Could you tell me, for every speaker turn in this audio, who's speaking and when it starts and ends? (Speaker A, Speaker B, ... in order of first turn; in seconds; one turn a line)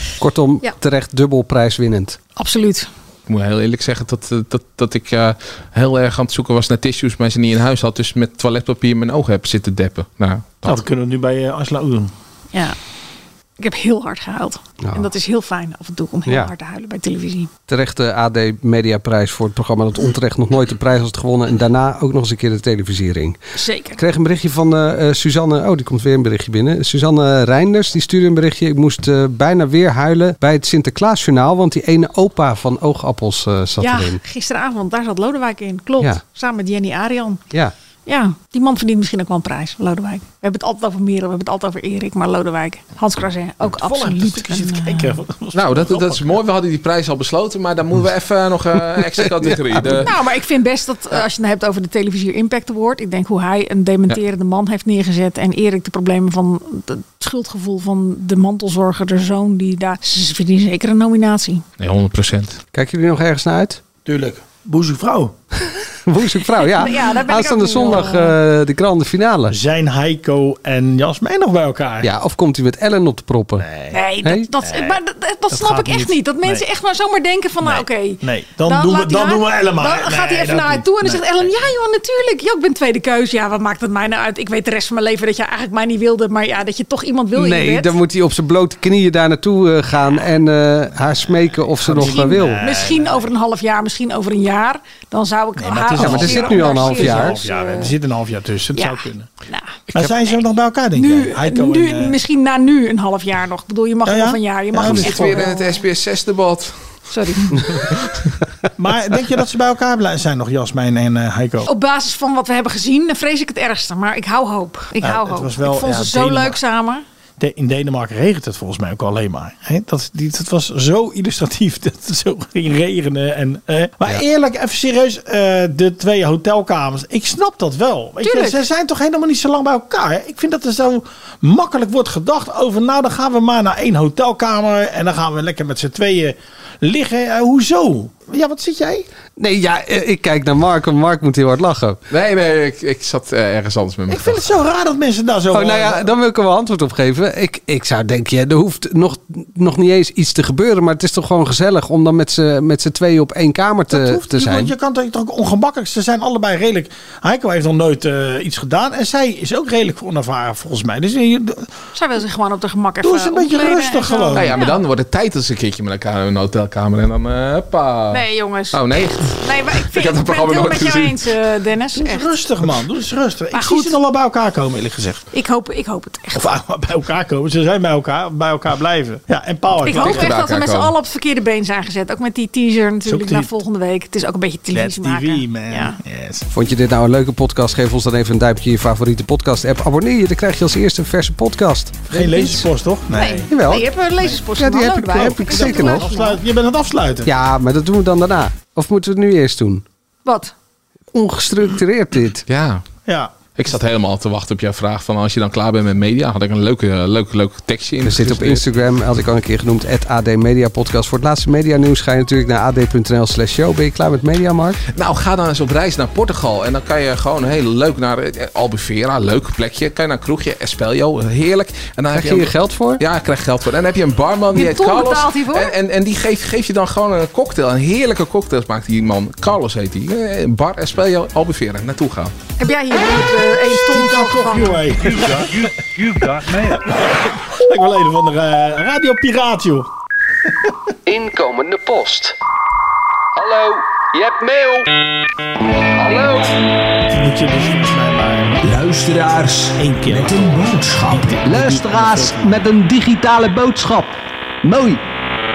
Speaker A: 0.2-2.2
Speaker B: 2.4-2.9
Speaker C: 3.3-10.8
Speaker D: 10.7-12.1
Speaker B: 13.6-17.5
Speaker A: 14.8-15.1
Speaker A: 16.3-16.5
Speaker A: 17.7-23.4
Speaker B: 23.6-24.0
Speaker A: 24.0-34.2
Speaker B: 33.8-37.4
Speaker B: 38.1-45.1
Speaker D: 43.8-46.3
Speaker C: 45.5-50.1
Speaker B: 50.0-61.6
Speaker C: 61.8-62.6
Speaker A: 62.7-63.8
Speaker D: 64.0-65.3
Speaker A: 66.1-69.6
Speaker B: 66.5-68.3
Speaker D: 69.5-72.1
Speaker A: 72.0-73.7
Speaker D: 73.6-74.0
Speaker B: 73.9-88.0
Speaker A: 74.2-74.5
Speaker D: 74.6-75.0
Speaker D: 75.5-76.7
Speaker D: 77.6-81.5
Speaker A: 87.3-92.6
Speaker D: 91.8-93.3
Speaker B: 92.0-97.9
Speaker D: 95.6-99.3
Speaker A: 96.0-97.4
Speaker B: 98.7-99.8
Speaker D: 99.9-102.2
Speaker B: 100.9-105.8
Speaker D: 104.1-105.5
Speaker C: 104.9-106.8
Speaker B: 107.1-107.8
Speaker D: 108.8-111.7
Speaker B: 111.7-117.0
Speaker D: 115.0-116.6
Speaker D: 117.4-139.1
Speaker B: 128.2-128.6
Speaker A: 139.4-142.0
Speaker C: 142.1-144.5
Speaker D: 144.1-146.1
Speaker A: 145.5-154.7
Speaker D: 153.9-161.7
Speaker B: 161.9-164.8
Speaker D: 163.0-164.6
Speaker C: 164.3-171.2
Speaker B: 168.1-172.3
Speaker D: 172.0-175.2
Speaker B: 173.5-174.0
Speaker B: 175.3-176.5
Speaker D: 176.3-180.3
Speaker B: 179.8-186.0
Speaker C: 180.0-180.9
Speaker D: 183.1-183.5
Speaker D: 184.7-186.5
Speaker A: 186.5-192.7
Speaker D: 192.1-193.5
Speaker B: 193.2-196.4
Speaker A: 193.5-193.9
Speaker A: 194.5-196.1
Speaker D: 195.3-197.3
Speaker A: 197.3-199.8
Speaker B: 200.2-200.5
Speaker A: 201.1-202.4
Speaker C: 202.5-202.9
Speaker D: 203.1-203.3
Speaker C: 203.6-208.7
Speaker A: 208.0-214.8
Speaker C: 214.9-232.3
Speaker A: 222.1-223.0
Speaker B: 224.5-225.7
Speaker B: 232.6-234.9
Speaker D: 233.3-239.9
Speaker E: 241.1-242.3
Speaker E: 243.4-244.9
Speaker E: 246.0-246.6
Speaker D: 247.1-248.6
Speaker F: 248.6-255.0
Speaker D: 249.8-252.6